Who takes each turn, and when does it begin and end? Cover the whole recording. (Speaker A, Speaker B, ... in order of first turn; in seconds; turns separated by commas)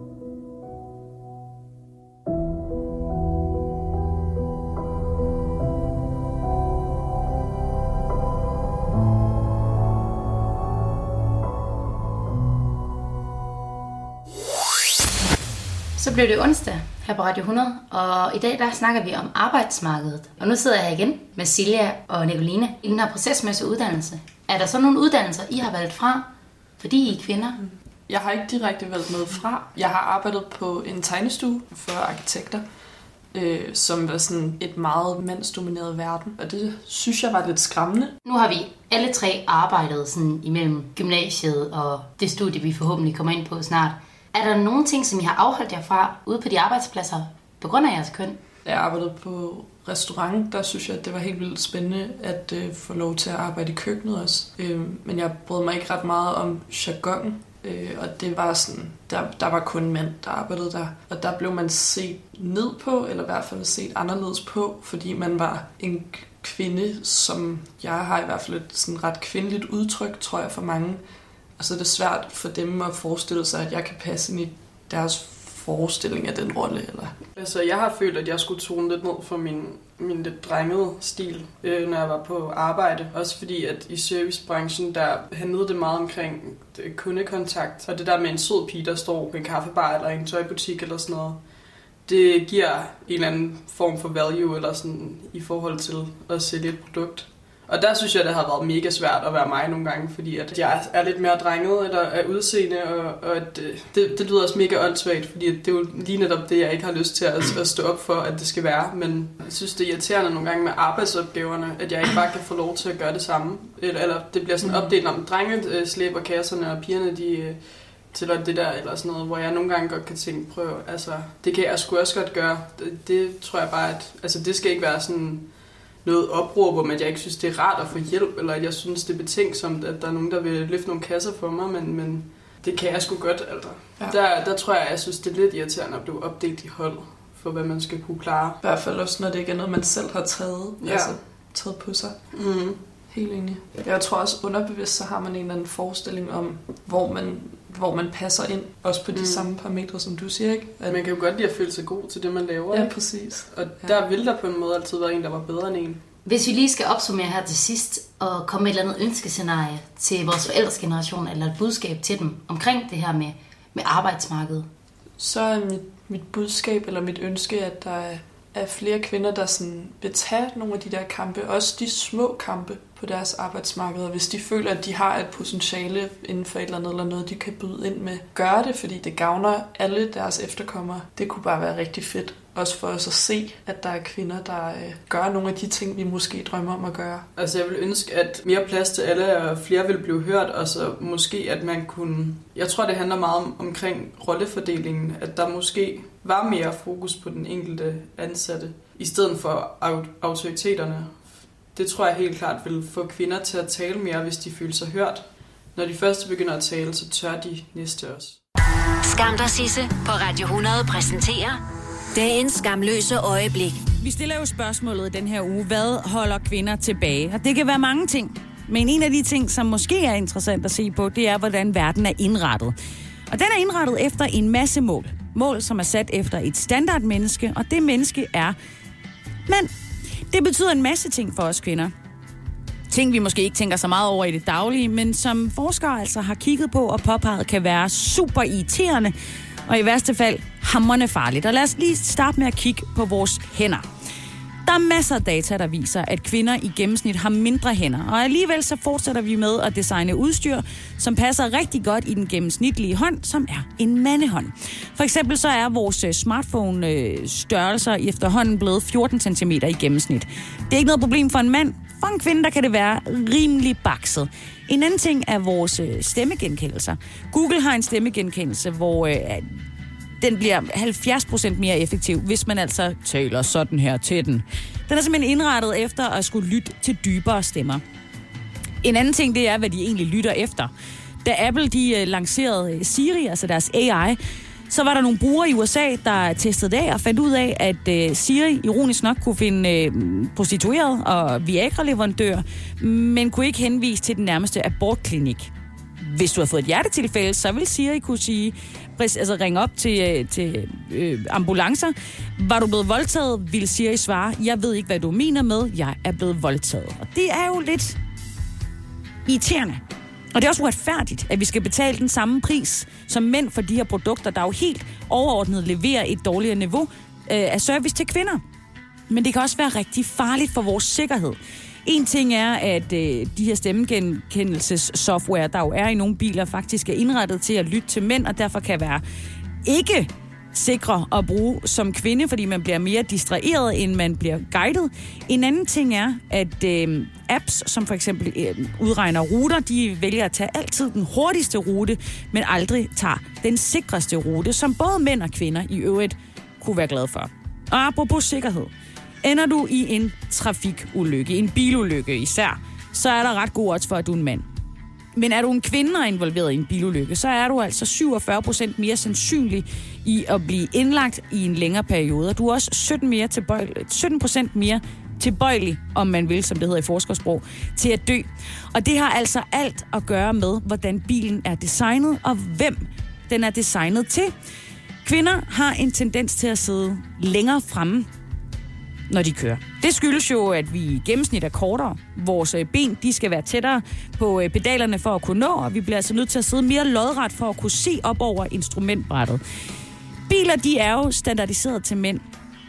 Speaker A: 16.0-27.6, Speaker B: 28.1-32.6, Speaker B: 33.3-38.2, Speaker A: 38.2-48.4, Speaker B: 48.6-71.0, Speaker B: 71.6-77.1, Speaker C: 77.3-91.4, Speaker C: 92.0-138.6, Speaker B: 114.6-115.0, Speaker B: 138.6-142.3, Speaker C: 140.8-141.2, Speaker C: 142.3-142.8, Speaker B: 143.1-151.0, Speaker C: 149.1-149.5, Speaker C: 150.9-156.0, Speaker B: 152.7-154.0, Speaker A: 156.2-164.7, Speaker B: 165.2-187.3, Speaker C: 187.3-208.4, Speaker D: 209.0-211.6, Speaker D: 212.2-213.8, Speaker E: 214.0-222.8, Speaker E: 223.3-228.5, Speaker E: 229.5-229.7, Speaker E: 230.3-231.9, Speaker E: 232.9-239.1, Speaker E: 239.7-243.8, Speaker E: 244.7-269.5, Speaker E: 270.2-277.8, Speaker E: 278.8-280.7, Speaker E: 281.2-284.2, Speaker E: 284.7-308.0, Speaker E: 309.2-309.8, Speaker E: 310.3-318.4, Speaker E: 319.1-329.0, Speaker E: 329.6-348.7, Speaker E: 349.2-354.5, Speaker E: 355.1-374.3, Speaker E: 375.0-378.1, Speaker E: 379.1-389.4, Speaker E: 390.3-392.2